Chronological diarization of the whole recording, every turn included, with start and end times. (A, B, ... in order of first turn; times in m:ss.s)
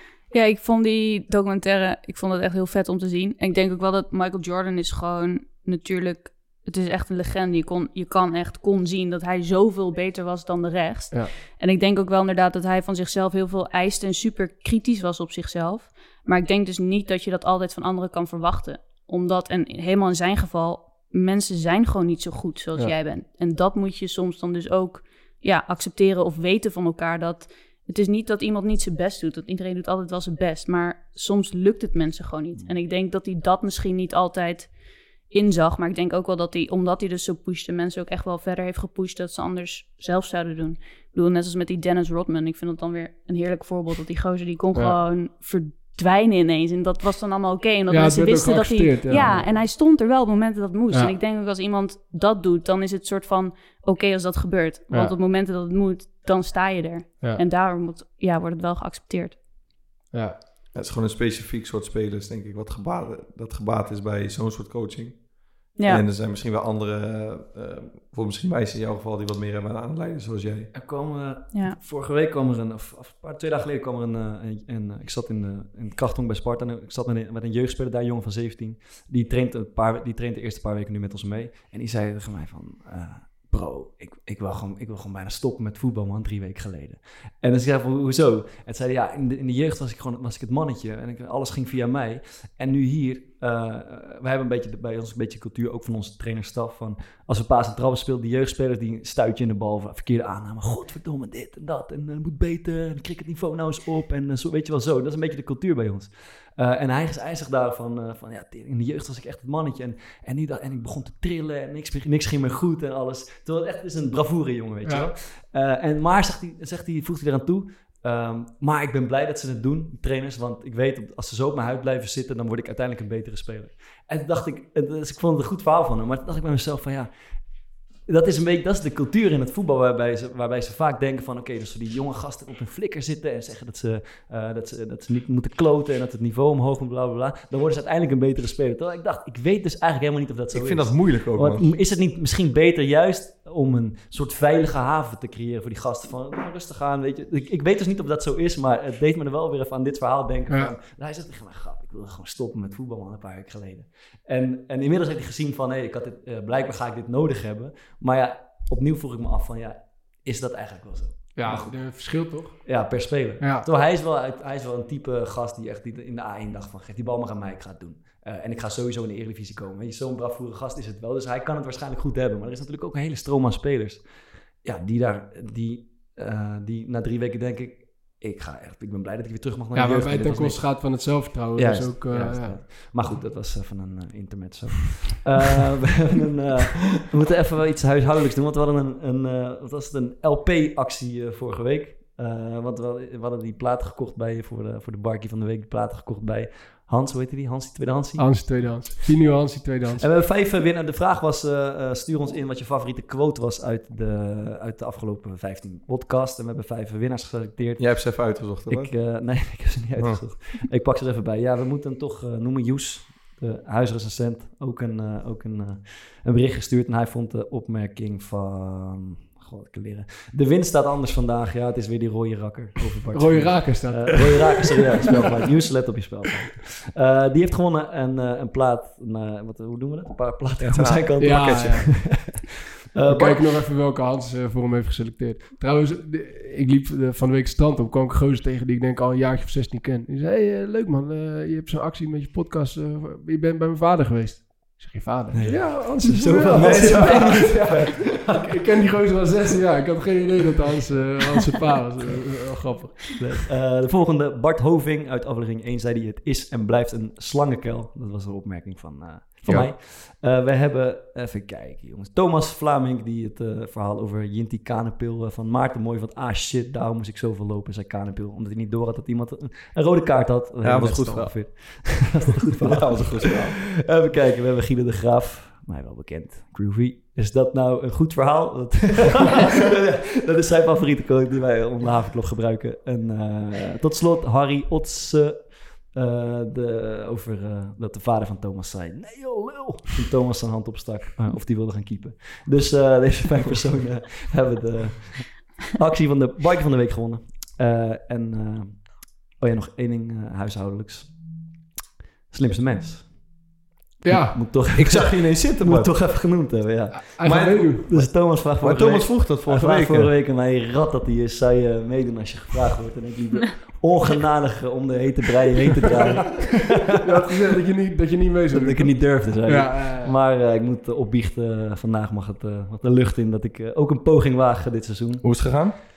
0:00.3-0:59.4 A
0:47.9-0:49.5 B
1:00.1-1:00.4 B
1:00.7-1:10.7 C
1:05.8-1:06.0 A
1:10.7-3:19.1 D
1:54.8-1:55.1 B
2:20.5-2:21.7 C
2:41.4-2:43.7 B
2:59.7-3:02.8 B
3:18.2-3:20.1 B
3:19.9-3:53.5 D
3:27.8-3:29.2 C
3:30.0-3:30.2 C
3:43.1-3:44.6 B
3:50.6-3:51.6 C
3:51.2-3:52.2 B
3:53.1-4:13.1 B
4:05.3-4:09.3 D
4:05.5-4:08.0 C
4:13.1-5:01.6 D
4:19.4-4:19.7 C
4:30.6-4:33.6 C
5:02.3-5:03.5 D
5:04.0-5:04.5 B
5:04.1-5:16.9 D
5:04.7-5:06.0 C
5:06.9-5:07.9 B
5:07.2-5:10.1 C
5:17.0-5:20.2 B
5:18.5-5:25.7 D
5:25.2-5:25.8 C